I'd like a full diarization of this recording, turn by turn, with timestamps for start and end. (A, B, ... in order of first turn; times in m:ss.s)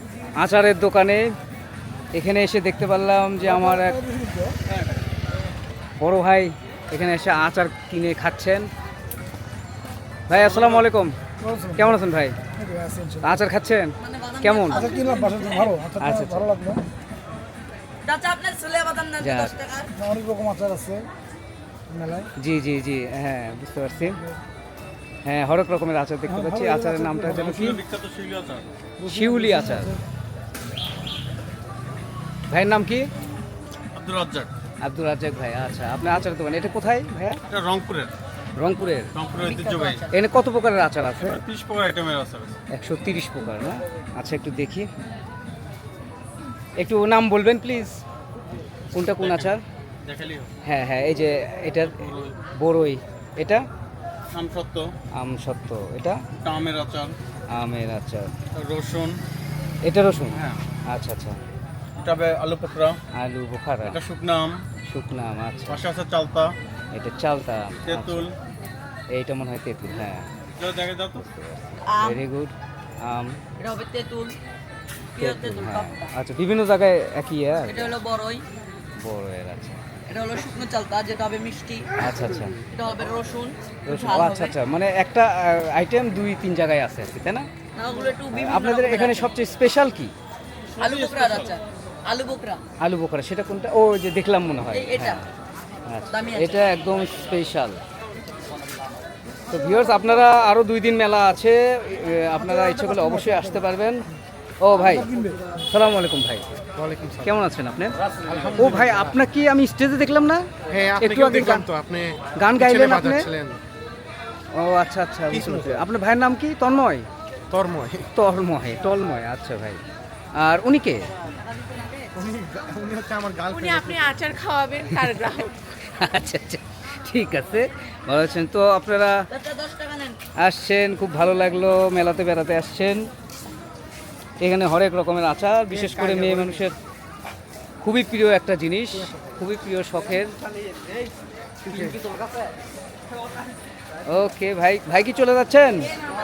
0:00.3-0:01.4 A
0:02.1-0:04.0 A
0:03.9-0:04.6 B
0:04.6-0:05.0 C
0:06.0-0:08.7 A
0:10.3-0:10.9 C
0:10.3-0:11.2 A
0:11.4-0:11.8 B
0:11.7-0:12.4 A
0:12.6-0:13.3 B
0:13.2-0:14.9 A
0:14.0-0:15.8 D
0:14.8-0:16.8 B
0:16.0-0:16.5 A
0:18.0-0:19.9 D
0:19.2-0:19.6 A
0:20.0-0:21.1 B
0:21.9-0:22.3 B
0:22.4-0:24.2 A
0:25.2-0:27.8 A
0:26.4-0:27.3 B
0:27.2-0:28.7 C
0:29.0-0:30.0 B
0:29.0-0:30.0 A
0:32.5-0:33.1 A
0:33.9-0:34.5 C
0:34.8-0:37.4 A
0:37.5-0:38.1 C
0:38.6-0:39.1 A
0:39.1-0:40.1 C
0:39.4-0:40.1 D
0:40.1-0:41.4 A
0:41.2-0:42.6 C
0:42.7-0:44.9 A
0:46.8-0:48.0 A
0:48.9-0:49.6 A
0:49.2-0:50.5 C
0:50.6-0:53.6 A
0:51.8-0:52.4 C
0:54.3-0:54.9 C
0:55.1-0:56.2 A
0:56.4-0:57.2 C
0:57.5-0:58.3 A
0:58.5-0:59.2 C
0:59.8-1:01.4 A
1:00.3-1:00.6 C
1:02.0-1:03.0 C
1:03.1-1:04.0 A
1:03.8-1:04.6 C
1:04.8-1:05.8 A
1:05.7-1:06.5 C
1:06.9-1:08.3 A
1:07.8-1:08.3 C
1:09.1-1:10.3 A
1:10.6-1:11.2 C
1:11.2-1:13.4 A
1:11.8-1:12.2 D
1:13.6-1:14.4 D
1:15.2-1:16.1 D
1:15.2-1:18.0 A
1:17.6-1:18.4 D
1:19.0-1:19.8 A
1:20.1-1:21.9 D
1:22.0-1:22.6 A
1:22.7-1:24.5 D
1:23.9-1:27.5 A
1:27.8-1:29.3 D
1:28.3-1:30.1 A
1:30.8-1:32.6 D
1:30.8-1:31.5 C
1:32.8-1:35.3 A
1:34.7-1:35.2 D
1:35.8-1:37.8 A
1:36.1-1:36.6 D
1:39.5-1:44.1 A
1:42.4-1:43.5 B
1:44.6-1:45.1 A
1:45.0-1:45.4 B
1:45.7-1:46.4 A
1:46.8-1:47.4 E
1:47.2-1:48.0 A
1:48.2-1:49.2 E
1:48.5-1:50.5 A
1:50.7-1:53.6 E
1:51.0-1:51.7 A
1:52.4-1:53.3 A
1:54.5-1:57.1 A
1:55.3-1:55.8 E
1:57.5-1:58.1 E
1:58.1-1:59.8 A
2:00.4-2:01.1 A
2:01.2-2:02.1 D
2:02.1-2:04.2 E
2:03.5-2:05.5 F
2:04.9-2:05.2 A
2:05.8-2:09.2 A
2:09.3-2:10.2 D
2:10.4-2:13.1 A
2:14.4-2:16.8 A
2:15.7-2:16.7 E
2:17.8-2:20.3 A
2:21.6-2:22.0 E
2:21.6-2:22.4 A
2:24.0-2:25.9 A